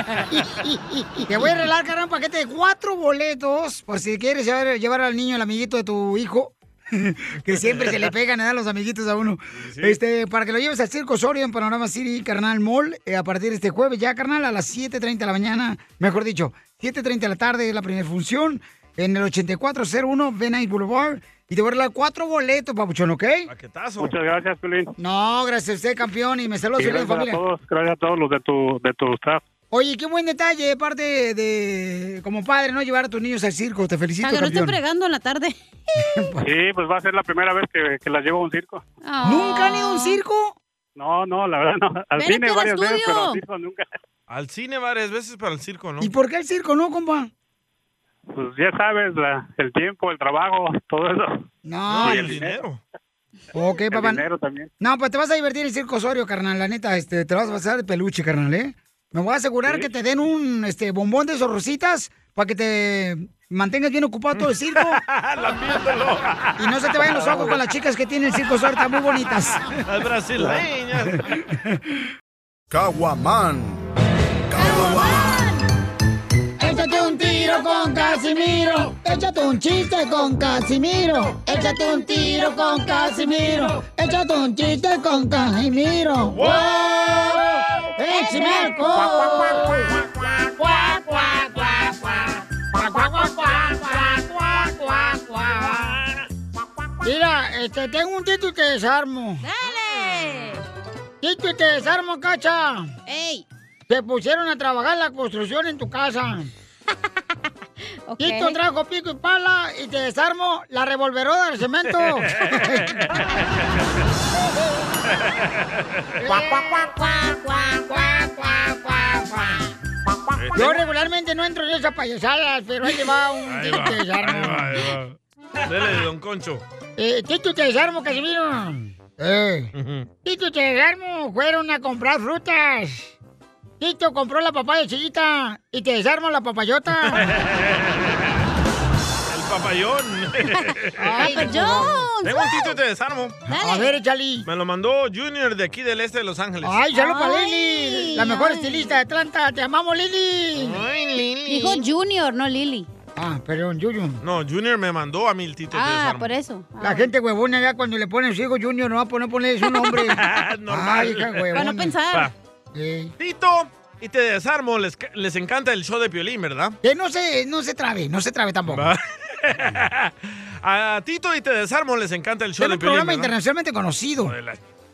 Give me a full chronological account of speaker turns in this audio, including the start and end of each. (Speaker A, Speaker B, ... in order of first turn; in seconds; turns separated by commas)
Speaker A: 0.3-23.5, Speaker B: 7.6-8.0, Speaker B: 9.6-10.0, Speaker B: 23.5-24.2, Speaker C: 24.0-24.9, Speaker A: 25.0-27.4, Speaker C: 26.8-29.4, Speaker A: 29.7-34.8, Speaker D: 34.2-35.6, Speaker A: 36.1-36.4, Speaker C: 36.4-38.8, Speaker D: 39.0-40.2, Speaker A: 39.2-40.5, Speaker C: 41.0-43.9, Speaker D: 42.2-43.4, Speaker B: 44.3-46.1, Speaker A: 46.0-47.3, Speaker C: 48.3-51.4, Speaker A: 51.6-52.4, Speaker B: 51.9-52.8, Speaker C: 52.0-52.6, Speaker A: 53.5-54.2, Speaker C: 53.9-54.7, Speaker A: 54.8-65.0, Speaker B: 64.4-67.5, Speaker A: 66.6-69.7, Speaker B: 69.8-71.4, Speaker D: 74.6-75.6, Speaker A: 74.6-75.1, Speaker A: 76.6-87.5, Speaker D: 81.5-83.5, Speaker B: 86.3-87.3, Speaker D: 86.5-87.4, Speaker A: 88.0-89.9, Speaker D: 88.1-89.9, Speaker A: 90.6-96.0, Speaker D: 91.0-91.3, Speaker A: 97.0-99.4, Speaker D: 99.4-100.6, Speaker A: 101.2-102.9, Speaker D: 103.1-103.5, Speaker A: 103.9-106.5, Speaker D: 108.1-108.6, Speaker A: 108.2-113.0, Speaker B: 112.4-113.3, Speaker A: 116.2-116.9, Speaker D: 116.8-117.8, Speaker A: 117.9-119.7, Speaker B: 120.3-120.8, Speaker A: 120.5-124.8, Speaker B: 123.5-126.6, Speaker A: 127.0-129.7, Speaker B: 129.8-130.1, Speaker A: 130.2-133.1, Speaker A: 133.8-137.3, Speaker B: 137.1-138.3, Speaker B: 139.3-141.4, Speaker A: 141.0-142.1, Speaker D: 141.2-142.8, Speaker B: 142.2-143.4, Speaker D: 143.5-143.9, Speaker A: 143.5-144.5, Speaker B: 144.5-146.8, Speaker A: 146.6-150.8, Speaker D: 146.9-149.0, Speaker B: 150.6-151.8, Speaker D: 151.5-152.9, Speaker A: 153.2-154.2, Speaker B: 154.2-156.3, Speaker D: 155.7-157.1, Speaker A: 156.8-161.9, Speaker B: 160.1-161.5, Speaker D: 161.5-162.3, Speaker A: 162.7-163.1, Speaker B: 163.2-166.8, Speaker A: 166.8-168.9, Speaker B: 168.7-173.3, Speaker A: 172.6-174.3, Speaker B: 174.2-174.6